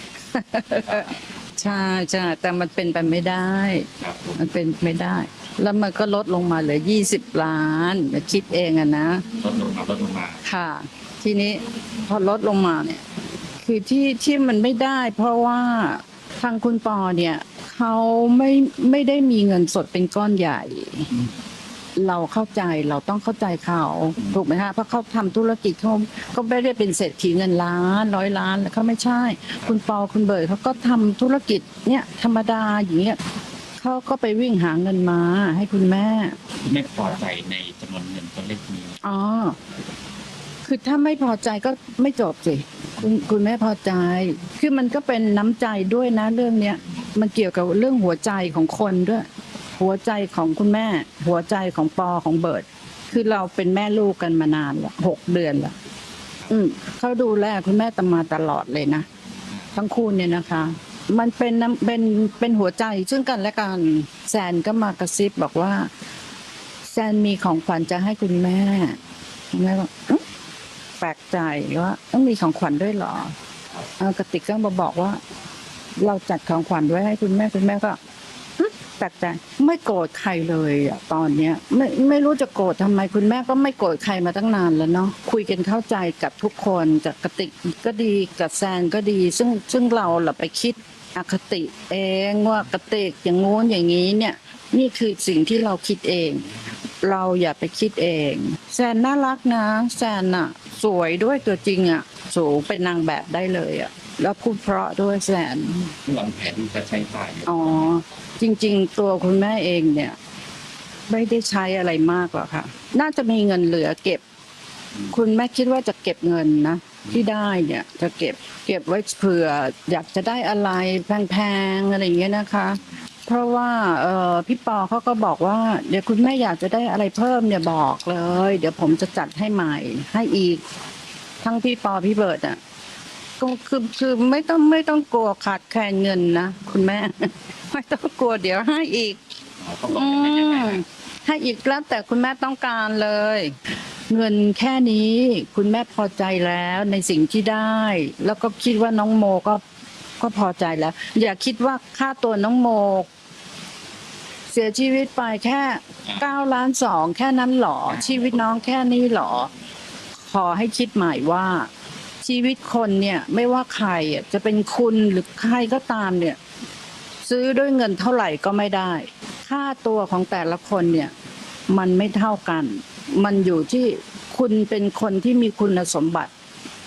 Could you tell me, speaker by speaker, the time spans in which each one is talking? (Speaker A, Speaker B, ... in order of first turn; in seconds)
Speaker A: 0.3-9.3, 10.4-13.1, 13.6-21.1, 22.0-33.2, 33.8-36.4, 39.0-39.6, 40.6-55.7, 56.5-59.1, 59.7-65.9, 66.8-69.0, 69.5-70.2, 71.0-73.3, 74.0-75.2, 76.0-78.0, 78.6-106.0, 107.5-110.2, 111.1-114.2, 115.1-130.6, 131.4-132.6, 133.4-139.2, 139.9-149.6, 150.2-153.1, 154.5-159.5, 160.2-161.7, 162.2-166.4, 167.2-171.1, 171.7-176.3
Speaker B: 0.7-1.1, 4.0-4.4, 9.4-10.4, 36.6-39.0, 106.0-107.6, 139.6-140.8